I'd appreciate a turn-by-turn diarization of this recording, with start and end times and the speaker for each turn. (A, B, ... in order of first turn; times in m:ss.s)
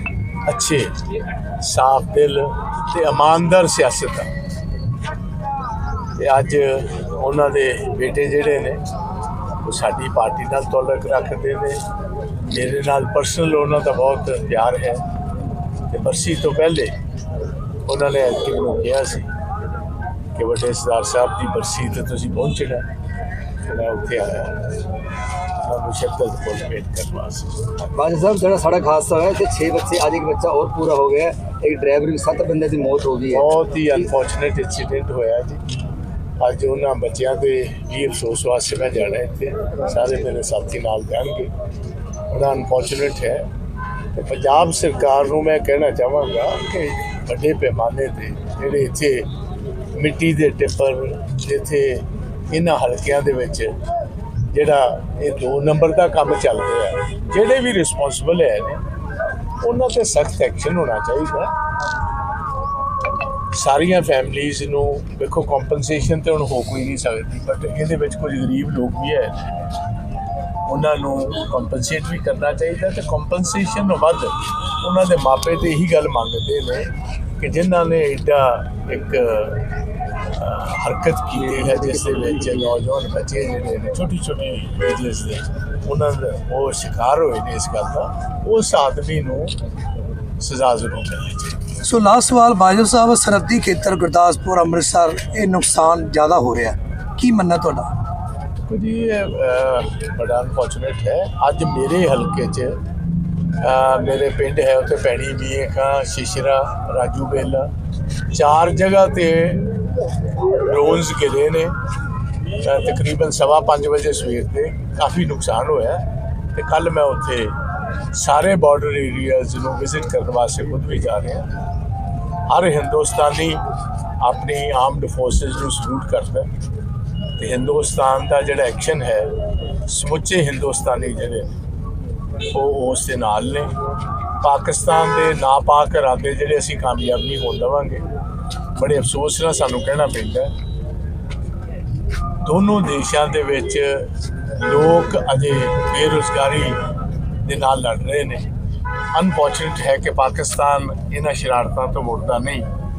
0:00.4-0:00.9 A
0:01.6-0:04.3 A
0:06.2-0:08.8 A
0:09.6-0:11.8 A
0:12.4-0:15.0 A
0:15.9-0:16.9 A
0:17.8-0:19.3 A
0:20.4-0:22.8 A
0:23.6-0:24.8 A
0:25.6-0:27.6 A
0:27.9-0:34.0 B
0:33.3-0:35.6 A
0:36.4-0:41.5 A
0:42.3-0:43.4 A
0:44.1-0:49.3 A
0:50.0-0:53.7 A
0:54.5-0:58.8 A
0:59.6-1:01.5 A
1:03.5-1:09.4 A
1:10.7-1:19.7 A
1:20.3-1:29.5 A
1:21.4-1:22.6 B
1:30.4-1:31.6 A
1:31.8-1:37.9 C
1:38.7-1:42.7 A
1:43.6-1:47.7 A
1:48.3-1:49.7 A
1:50.5-1:51.7 A
1:52.6-1:56.0 A
1:56.5-1:57.5 A
1:58.1-2:01.5 A
2:02.5-2:03.6 A
2:04.2-2:06.5 A
2:07.4-2:09.3 A
2:09.8-2:11.5 A
2:12.5-2:13.7 A
2:14.4-2:18.0 A
2:18.7-2:20.5 A
2:22.4-2:24.0 A
2:24.6-2:26.8 A
2:27.4-2:28.5 A
2:29.1-2:32.7 A